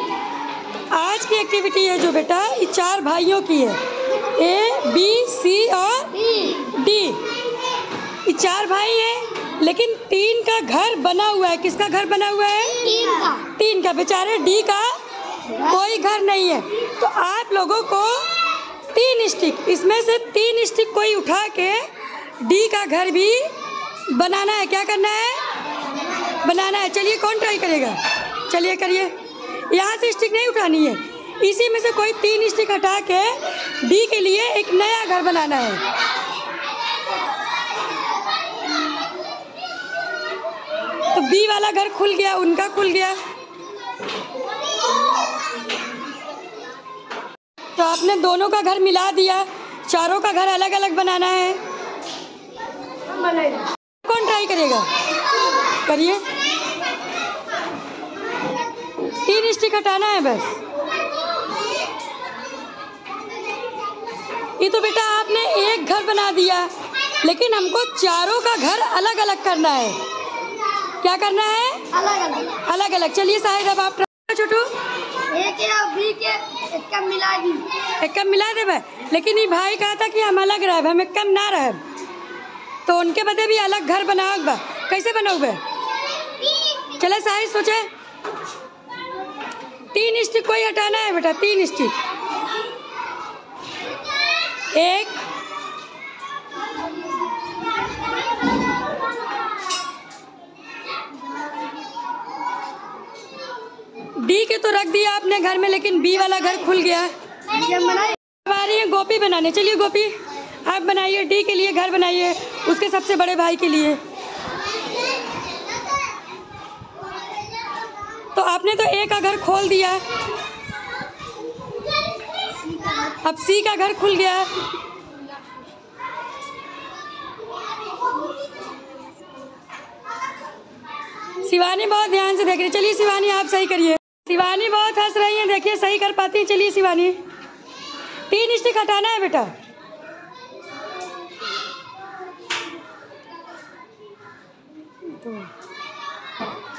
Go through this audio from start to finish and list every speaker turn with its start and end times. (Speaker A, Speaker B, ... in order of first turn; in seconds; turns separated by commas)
Speaker A: 0.9-7.3, Speaker B: 6.1-6.7, Speaker A: 8.2-12.8, Speaker B: 12.8-13.4, Speaker A: 13.4-15.0, Speaker A: 15.6-18.3, Speaker A: 18.9-21.9, Speaker A: 22.4-23.5, Speaker A: 24.1-25.4, Speaker A: 26.4-29.1, Speaker A: 29.7-35.8, Speaker A: 41.1-43.2, Speaker A: 47.8-51.6, Speaker B: 53.3-53.6, Speaker A: 54.0-54.9, Speaker A: 55.8-56.2, Speaker A: 59.2-60.6, Speaker A: 64.6-66.7, Speaker A: 67.2-70.0, Speaker A: 71.0-71.8, Speaker B: 71.9-72.6, Speaker A: 72.6-74.7, Speaker B: 75.3-77.7, Speaker A: 78.0-81.8, Speaker A: 82.8-85.6, Speaker A: 86.8-87.9, Speaker A: 89.9-91.9, Speaker A: 94.7-95.2, Speaker A: 104.2-107.1, Speaker B: 107.5-108.2, Speaker A: 108.4-114.0, Speaker A: 118.3-120.0, Speaker A: 123.2-124.5, Speaker A: 131.4-137.2, Speaker A: 138.3-139.5